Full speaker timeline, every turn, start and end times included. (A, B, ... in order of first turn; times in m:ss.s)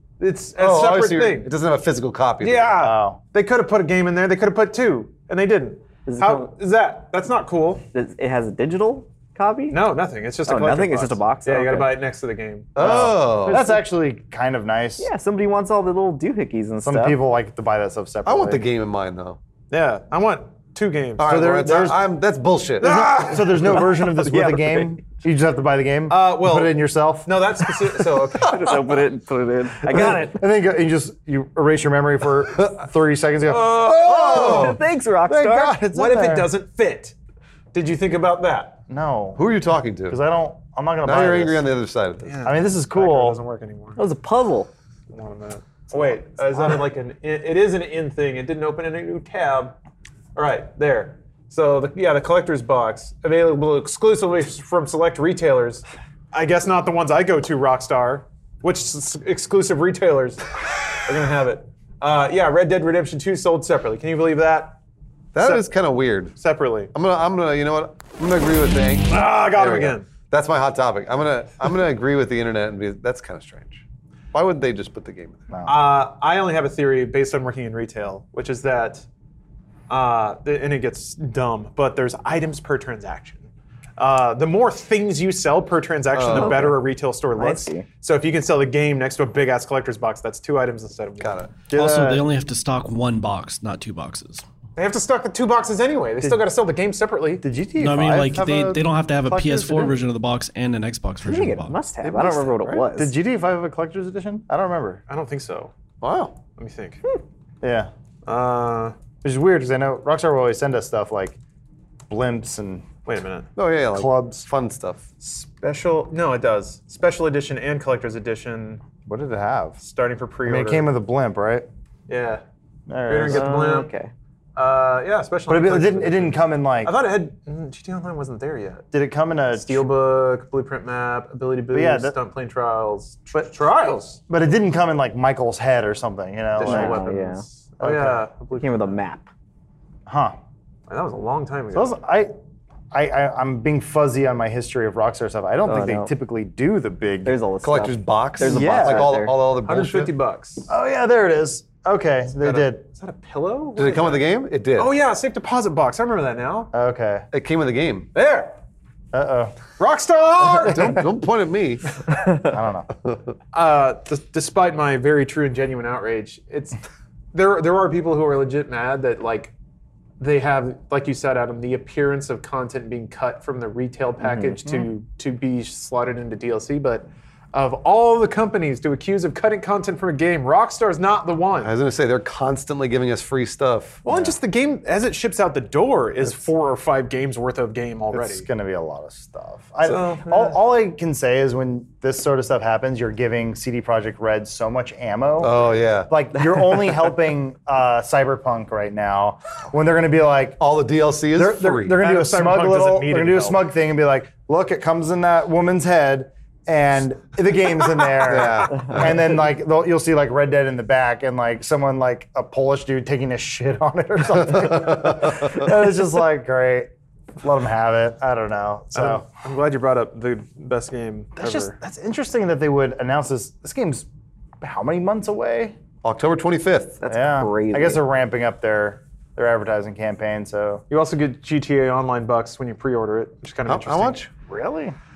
0:00.2-0:01.5 A
0:00.6-0:02.7 B
0:02.4-0:07.8 A
0:02.8-0:03.2 C
0:06.1-0:06.5 D
0:07.9-0:09.8 D
0:09.7-0:12.7 A
0:10.4-0:12.0 D
0:12.7-0:13.8 B
0:12.8-0:15.1 C
0:15.0-0:17.2 D
0:16.8-0:18.6 C
0:18.2-0:19.4 B
0:19.7-0:21.5 A
0:21.2-0:23.3 B
0:21.2-0:22.0 C
0:22.8-0:27.3 C
0:22.8-0:23.6 A
0:24.1-0:24.9 D
0:26.1-0:28.8 A
0:28.4-0:30.4 D
0:29.9-0:36.5 C
0:33.5-0:34.7 A
0:33.7-0:34.8 B
0:34.3-0:35.8 D
0:35.9-0:37.1 A
0:37.7-0:38.8 A
0:38.9-0:39.4 C
0:39.4-0:40.2 B
0:40.1-0:41.7 C
0:41.0-0:42.4 B
0:42.2-0:44.0 A
0:42.4-0:43.4 C
0:44.0-0:44.7 D
0:45.1-0:49.7 A
0:50.3-1:04.8 A
1:05.3-1:06.3 B
1:05.4-1:05.6 A
1:06.4-1:06.9 A
1:06.9-1:15.4 B
1:09.1-1:10.1 A
1:15.5-1:15.8 C
1:15.6-1:19.0 A
1:19.9-1:23.4 A
1:24.0-1:31.4 A
1:26.1-1:26.7 B
1:26.3-1:26.8 D
1:27.4-1:27.8 D
1:31.2-1:31.5 B
1:31.7-1:32.2 C
1:31.7-1:34.4 E
1:34.8-1:37.4 A
1:37.4-1:40.0 C
1:37.8-1:41.8 E
1:41.2-1:43.1 D
1:42.0-1:45.0 C
1:45.1-1:45.7 A
1:46.0-1:46.3 B
1:46.6-1:47.0 A
1:47.6-1:47.9 C
1:48.2-1:48.9 A
1:49.2-1:51.4 C
1:52.1-1:52.9 C
1:53.0-1:53.5 A
1:53.6-1:55.1 B
1:53.9-1:54.5 C
1:55.2-1:58.8 A
1:59.0-1:59.8 C
1:59.8-2:00.9 A
2:00.4-2:01.7 C
2:02.1-2:02.4 A
2:02.9-2:03.5 C
2:03.0-2:03.9 A
2:03.2-2:04.1 D
2:04.6-2:08.9 A
2:05.5-2:06.9 C
2:08.9-2:09.8 C
2:09.5-2:14.2 A
2:11.7-2:12.2 C
2:14.3-2:17.0 C
2:16.6-2:18.9 A
2:16.6-2:17.4 D
2:17.8-2:18.2 C
2:18.6-2:19.3 D
2:20.0-2:20.4 C
2:20.9-2:22.0 A
2:21.7-2:22.3 C
2:22.9-2:27.4 C
2:25.6-2:26.1 D
2:27.2-2:29.3 D
2:27.6-2:30.1 B
2:28.5-2:30.7 A
2:30.7-2:32.8 C
2:32.4-2:36.7 A
2:33.8-2:34.9 B
2:36.7-2:37.3 C
2:37.3-2:38.1 B
2:38.1-2:38.6 A
2:39.1-2:39.6 C
2:39.8-2:41.0 A
2:40.5-2:41.0 C
2:40.6-2:41.9 B
2:42.3-2:42.9 C
2:43.0-2:43.3 B
2:43.5-2:46.8 A
2:47.3-2:49.5 A
2:50.2-3:01.7 A
3:01.6-3:04.0 B
3:04.0-3:08.4 A
3:08.1-3:20.6 C
3:09.8-3:10.6 A
3:15.4-3:16.1 B
3:20.6-3:22.0 B
3:21.3-3:36.9 C
3:21.9-3:23.6 A
3:28.2-3:29.2 B
3:34.7-3:35.5 B
3:37.4-3:39.2 C
3:38.9-3:41.8 A
3:41.4-3:44.1 C
3:44.6-3:45.8 C
3:46.0-3:47.0 B
3:47.0-3:48.0 D
3:47.1-3:50.8 C
3:50.9-3:54.2 A
3:53.7-3:54.3 B
3:54.5-3:55.0 C